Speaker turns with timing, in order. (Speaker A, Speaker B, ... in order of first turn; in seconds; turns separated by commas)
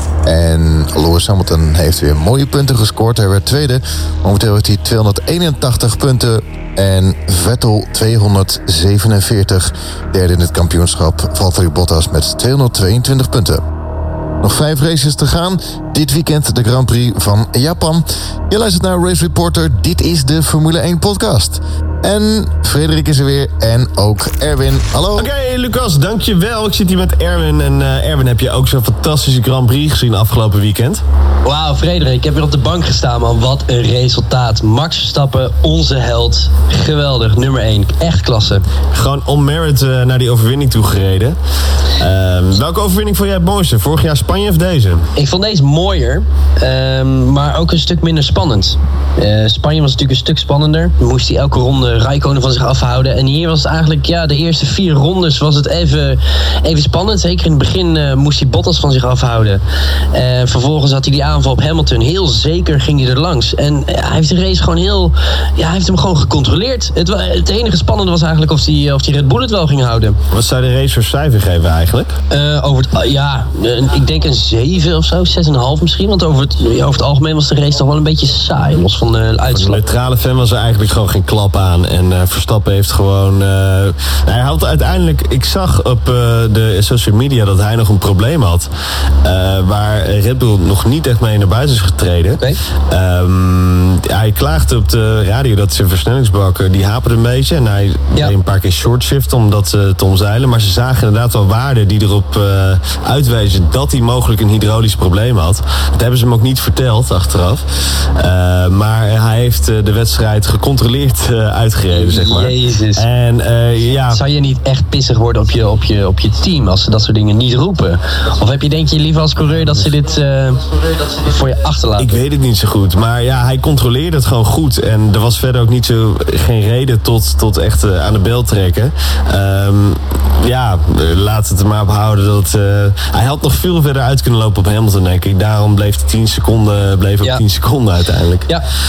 Speaker A: 0.3-13.6, Speaker A: 14.4-25.3, Speaker B: 25.1-31.0, Speaker C: 31.4-38.7, Speaker B: 38.9-41.4, Speaker B: 42.0-45.1, Speaker C: 45.2-70.2, Speaker B: 70.3-72.1, Speaker C: 72.3-79.8, Speaker B: 79.5-88.7, Speaker B: 89.2-107.7, Speaker B: 108.2-114.2, Speaker C: 111.9-113.0, Speaker C: 114.1-122.2, Speaker B: 122.0-138.5